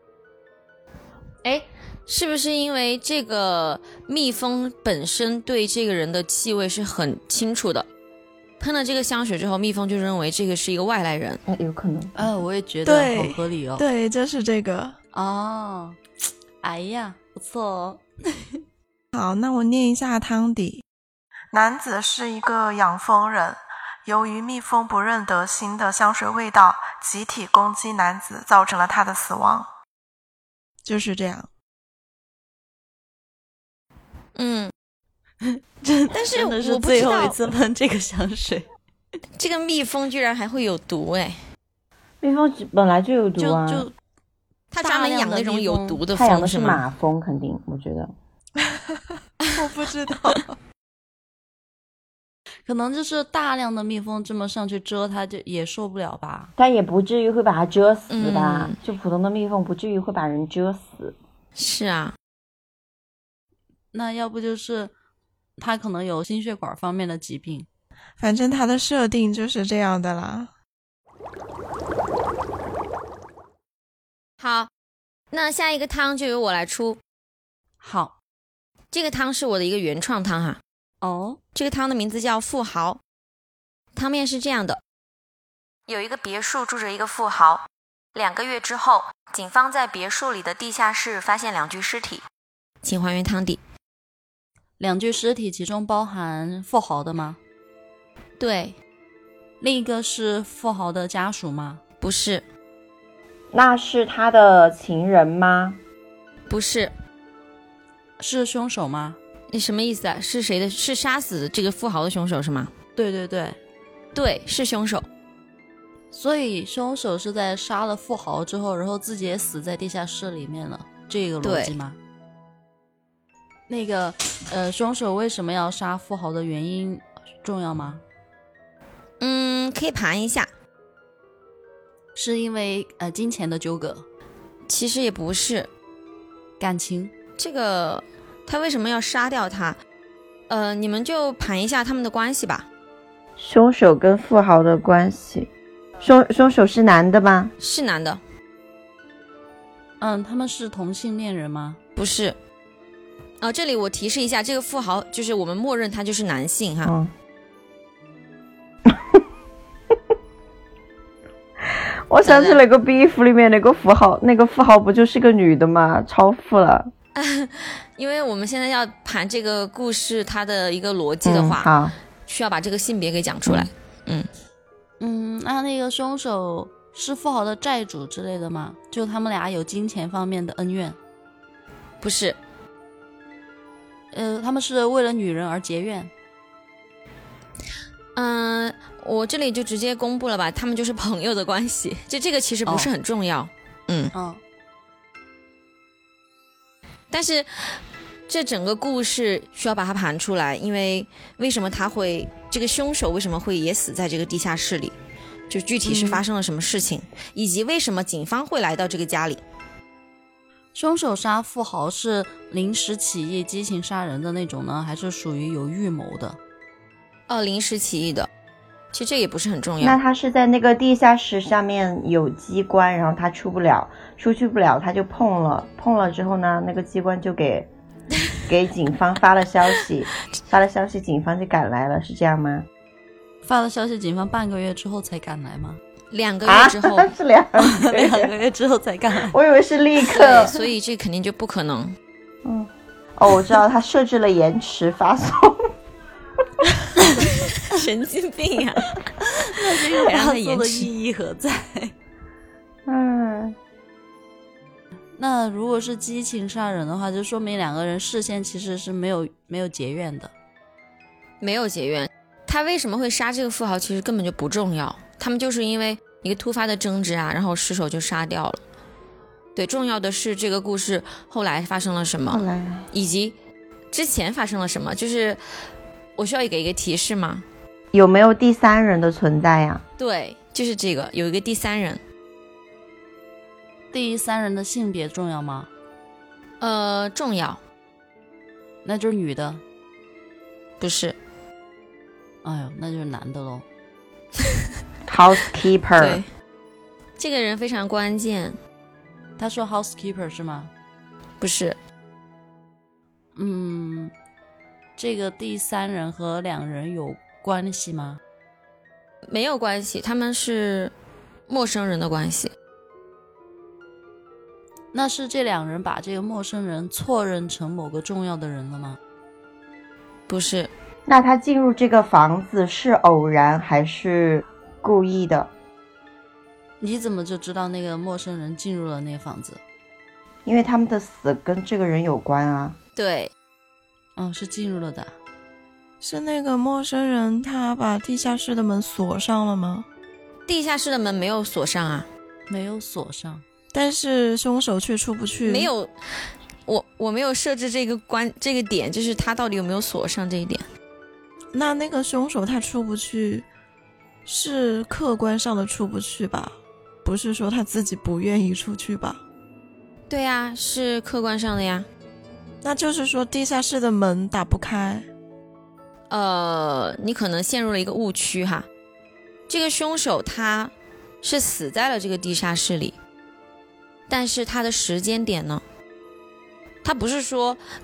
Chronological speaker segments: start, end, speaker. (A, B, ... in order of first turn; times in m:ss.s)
0:01.4-0:07.9 A
0:08.6-0:11.4 A
0:11.5-0:12.2 B
0:12.2-0:13.8 C
0:12.8-0:15.0 D
0:15.1-0:16.0 C
0:16.6-0:18.6 C
0:19.1-0:20.8 D
0:21.5-0:29.7 D
0:30.8-0:31.5 D
0:34.4-0:34.7 A
0:35.4-0:38.7 C
0:36.1-0:37.4 A
0:39.4-0:41.4 A
0:42.2-0:43.9 B
0:43.4-0:43.9 C
0:44.7-0:46.8 A
0:44.8-0:46.0 C
0:46.1-0:48.1 B
0:48.6-0:50.6 D
0:52.7-0:56.5 C
0:56.6-1:01.2 B
0:58.1-0:58.8 A
1:01.6-1:02.2 A
1:03.9-1:04.9 C
1:05.6-1:07.7 C
1:08.2-1:10.5 D
1:14.4-1:14.7 A
1:15.3-1:17.0 A
1:17.8-1:18.1 C
1:18.9-1:20.6 A
1:21.0-1:21.4 C
1:21.6-1:23.0 A
1:24.0-1:24.8 A
1:25.9-1:27.6 A
1:28.2-1:32.2 A
1:32.8-1:33.6 A
1:34.8-1:37.4 C
1:38.4-1:38.8 A
1:39.6-1:41.8 C
1:42.0-1:42.4 A
1:43.5-1:45.8 B
1:46.5-1:46.9 A
1:48.2-1:49.2 C
1:49.5-1:52.7 A
1:53.0-1:53.6 C
1:54.1-1:55.1 A
1:56.1-2:02.0 C
2:01.4-2:01.7 A
2:03.7-2:08.0 C
2:09.2-2:10.5 A
2:12.2-2:14.1 C
2:14.7-2:15.7 A
2:16.6-2:17.1 C
2:17.4-2:19.8 A
2:20.5-2:22.7 A
2:23.4-2:25.5 B
2:26.0-2:27.5 B
2:27.6-2:28.2 A
2:30.0-2:31.8 C
2:32.0-2:32.4 A
2:33.4-2:36.9 A
2:36.8-2:37.1 B
2:38.9-2:39.2 B
2:41.7-2:46.9 B
2:42.2-2:42.6 A
2:47.2-2:51.7 A
2:51.2-2:52.0 B
2:52.3-2:54.3 A
2:55.0-3:01.0 C
3:02.0-3:02.4 A
3:04.1-3:06.1 C
3:08.2-3:14.1 A
3:12.7-3:12.9 C
3:14.1-3:14.4 C
3:17.1-3:24.9 A
3:25.5-3:29.4 A
3:25.8-3:26.2 C
3:30.8-3:36.4 C
3:37.3-3:38.3 A
3:38.9-3:40.0 A
3:39.8-3:47.7 B
3:48.5-3:52.7 B
3:53.4-3:55.8 C
3:56.1-3:57.1 A
3:56.4-3:58.3 B
3:57.6-3:59.4 C
3:59.3-4:00.6 B
4:00.1-4:02.0 A
4:02.4-4:05.7 B
4:07.0-4:07.2 C
4:07.2-4:09.0 A
4:09.2-4:11.9 C
4:10.0-4:10.9 A
4:12.9-4:13.6 B
4:15.2-4:20.3 C
4:21.4-4:28.6 A
4:29.6-4:33.4 A
4:32.3-4:32.9 B
4:33.9-4:35.4 A
4:36.2-4:37.4 A
4:37.9-4:39.8 B
4:40.0-4:42.0 A
4:43.9-4:45.7 C
4:46.6-4:47.6 A
4:48.8-4:49.6 C
4:50.8-4:51.2 A
4:52.4-4:53.7 C
4:55.1-4:56.2 B
4:56.0-4:56.3 A
4:57.2-4:58.6 A
4:59.4-5:00.7 C
5:01.4-5:01.8 A
5:03.4-5:04.1 C
5:05.0-5:08.2 C
5:09.3-5:10.9 A
5:11.5-5:12.5 A
5:14.9-5:19.0 C
5:20.3-5:20.7 A
5:21.1-5:25.5 B
5:26.8-5:29.6 C
5:30.5-5:32.8 B
5:33.0-5:33.3 A
5:34.2-5:35.1 C
5:36.0-5:39.9 D
5:40.5-5:42.1 A
5:42.5-5:43.4 C
5:43.7-5:45.7 D
5:45.4-5:45.9 A
5:46.7-5:50.6 A
5:51.5-5:53.5 D
5:54.3-5:59.2 D
6:00.1-6:01.9 A
6:02.6-6:05.1 D
6:06.1-6:08.7 A
6:09.5-6:13.0 A
6:14.1-6:15.6 A
6:16.8-6:17.6 A